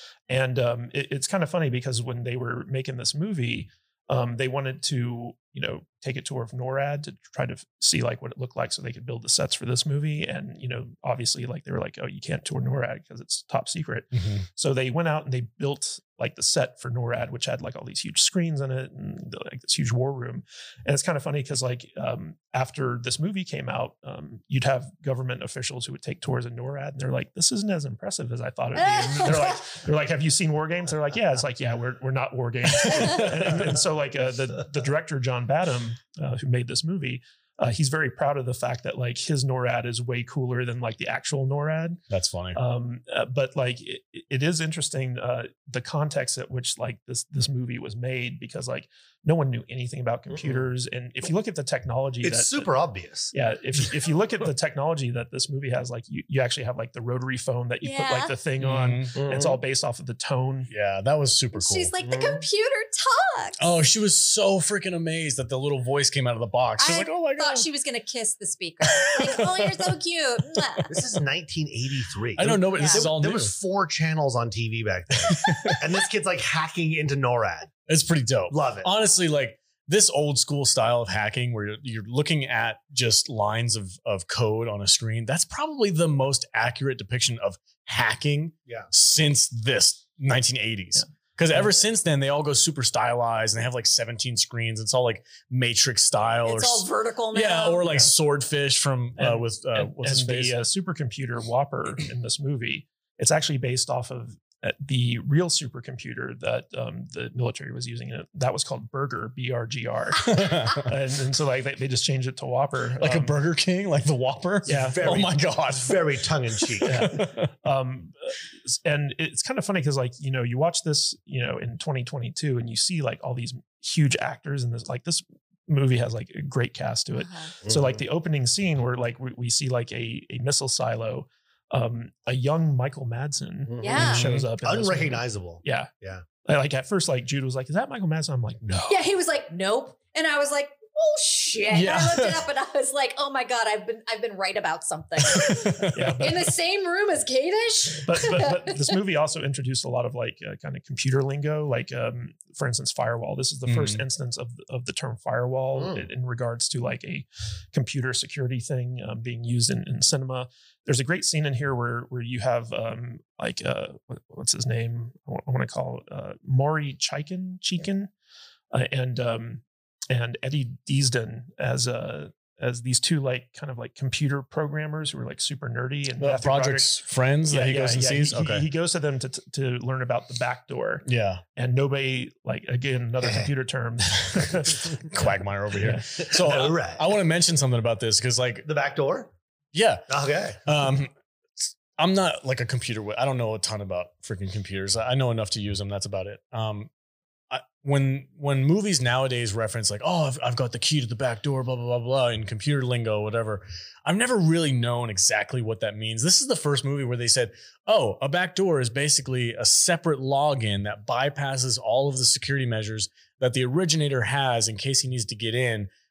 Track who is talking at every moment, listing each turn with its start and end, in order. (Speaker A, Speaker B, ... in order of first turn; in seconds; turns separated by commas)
Speaker A: 0.3-42.0, Speaker B: 14.1-14.4, Speaker C: 28.8-29.6, Speaker C: 32.9-33.2, Speaker B: 42.1-42.6, Speaker A: 42.5-52.7, Speaker D: 50.3-50.7, Speaker D: 52.2-53.3, Speaker A: 53.3-60.7, Speaker C: 57.8-58.3, Speaker B: 58.6-59.1, Speaker D: 59.1-59.6, Speaker B: 60.7-61.9, Speaker C: 61.5-63.6, Speaker D: 62.0-62.4, Speaker B: 63.6-67.7, Speaker C: 66.8-70.9, Speaker B: 68.9-69.6, Speaker D: 70.9-77.7, Speaker B: 72.4-73.5, Speaker C: 72.7-73.1, Speaker B: 75.3-75.8, Speaker B: 77.9-100.6, Speaker D: 78.5-78.9, Speaker A: 91.0-91.7, Speaker C: 96.4-97.9, Speaker A: 99.2-113.3, Speaker B: 110.2-110.9, Speaker B: 113.0-117.5, Speaker A: 114.7-115.1, Speaker D: 114.7-117.1, Speaker A: 116.8-135.9, Speaker C: 127.1-127.5, Speaker D: 127.6-128.0, Speaker D: 133.6-136.2, Speaker C: 133.8-134.2, Speaker B: 133.9-134.5, Speaker A: 136.4-138.6, Speaker B: 138.6-139.0, Speaker C: 138.9-148.8, Speaker B: 141.7-142.5, Speaker B: 145.2-146.1, Speaker A: 145.9-146.5, Speaker A: 148.0-168.1, Speaker B: 153.7-154.0, Speaker D: 155.7-156.1, Speaker A: 168.7-185.1, Speaker B: 176.2-178.6, Speaker B: 181.0-181.4, Speaker D: 183.2-183.5, Speaker B: 185.1-188.7, Speaker A: 185.8-186.3, Speaker D: 186.2-187.1, Speaker D: 188.6-189.3, Speaker B: 189.7-190.1, Speaker D: 190.1-190.6, Speaker B: 190.6-196.9, Speaker B: 197.5-215.9